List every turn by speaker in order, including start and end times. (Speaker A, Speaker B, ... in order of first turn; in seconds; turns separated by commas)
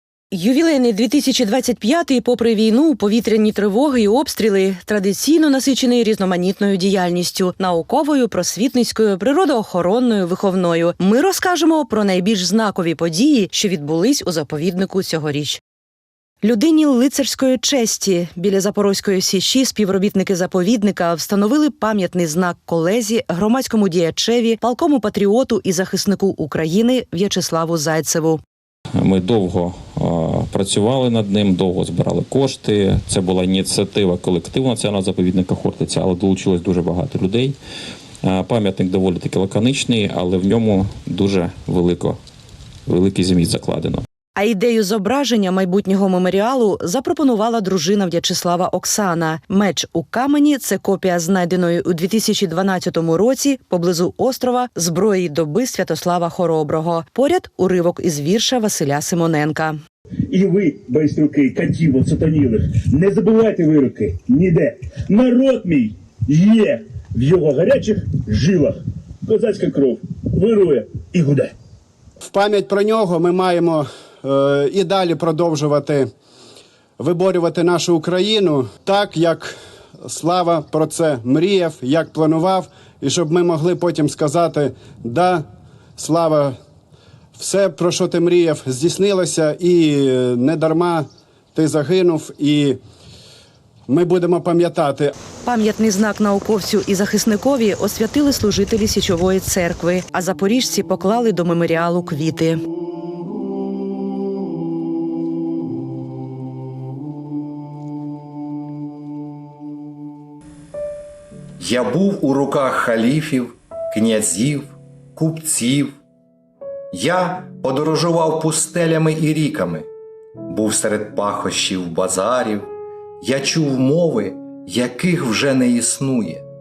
Speaker A: 0.3-15.6, Speaker A: 16.4-28.4, Speaker B: 29.0-37.6, Speaker B: 38.2-42.2, Speaker B: 42.9-44.0, Speaker A: 44.4-59.8, Speaker C: 60.3-71.5, Speaker D: 72.2-76.1, Speaker D: 77.0-85.4, Speaker D: 86.0-86.5, Speaker D: 87.4-92.8, Speaker D: 93.9-95.1, Speaker A: 95.4-102.6, Speaker E: 111.6-116.0, Speaker E: 116.9-119.9, Speaker E: 120.5-122.7, Speaker E: 123.2-126.4